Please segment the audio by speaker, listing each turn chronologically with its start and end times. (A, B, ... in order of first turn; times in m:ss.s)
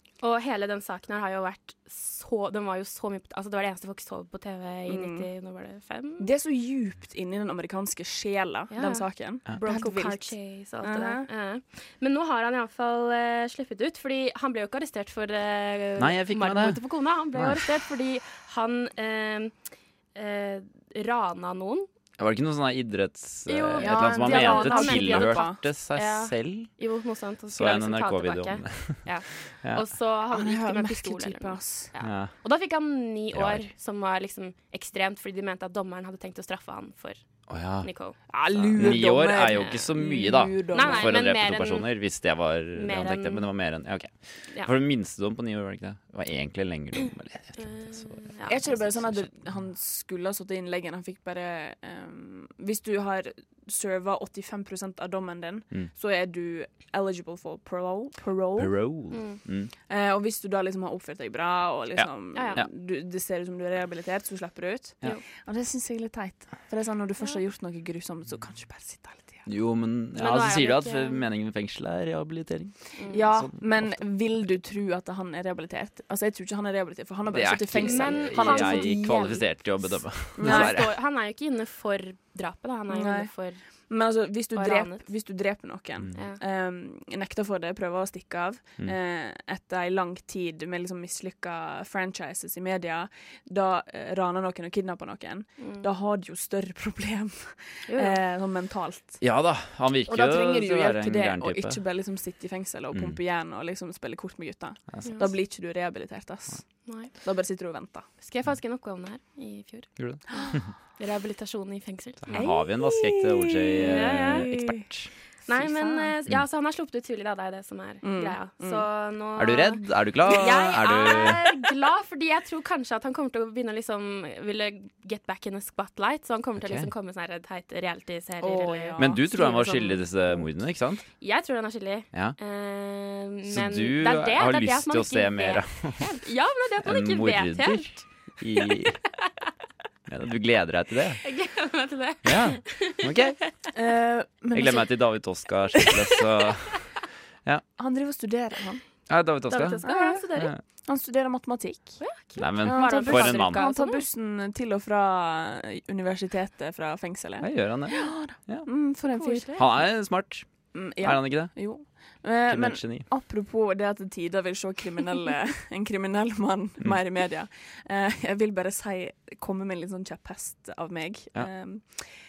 0:00.2-0:06.3 A
0:04.9-0:05.3 B
0:06.2-0:11.3 B
0:08.7-0:19.5 A
0:16.0-0:16.8 C
0:17.3-0:17.7 C
0:20.1-0:21.9 A
0:22.2-0:26.7 C
0:23.4-0:37.2 A
0:23.8-0:25.6 B
0:27.5-0:29.8 C
0:30.3-0:31.9 B
0:32.0-0:32.3 C
0:33.3-0:33.7 C
0:37.5-0:49.3 C
0:37.7-0:38.1 A
0:38.3-0:41.1 B
0:38.8-0:39.0 A
0:39.5-0:39.8 A
0:40.7-0:42.0 A
0:42.7-0:43.4 A
0:47.6-0:48.8 A
0:48.5-0:58.8 B
0:58.6-0:59.7 C
0:59.1-0:59.4 A
0:59.9-1:09.4 B
1:01.9-1:02.7 C
1:02.3-1:02.6 A
1:09.5-1:14.0 C
1:10.2-1:11.2 A
1:12.9-1:13.2 A
1:13.1-1:19.4 B
1:17.3-1:20.9 C
1:17.8-1:19.4 A
1:20.2-1:23.6 A
1:20.4-1:20.8 B
1:22.9-1:23.3 B
1:23.9-1:39.2 B
1:24.5-1:25.0 A
1:35.6-1:35.8 A
1:37.9-1:38.2 A
1:39.2-1:41.8 C
1:40.1-1:48.0 B
1:42.9-1:43.2 C
1:48.2-1:52.4 A
1:50.0-1:50.7 C
1:52.2-1:55.1 C
1:52.3-1:54.8 B
1:53.9-1:54.4 A
1:55.4-2:10.4 A
1:55.5-1:56.1 B
1:58.0-1:58.8 B
1:59.4-2:01.5 C
2:06.6-2:06.9 C
2:08.4-2:09.2 B
2:09.0-2:11.0 C
2:11.2-2:17.9 A
2:13.5-2:16.1 C
2:16.8-2:19.0 C
2:20.1-2:21.2 C
2:21.2-2:23.4 A
2:22.2-2:23.4 C
2:23.7-2:25.2 B
2:24.5-2:27.6 C
2:27.8-2:28.8 B
2:29.1-2:30.6 C
2:29.5-2:30.5 A
2:29.8-2:30.2 B
2:30.8-2:32.0 B
2:32.0-2:34.0 A
2:32.4-2:33.6 C
2:32.6-2:39.7 B
2:37.4-2:38.7 C
2:39.1-2:39.6 A
2:39.6-2:41.6 C
2:40.7-2:52.1 B
2:42.5-2:43.0 C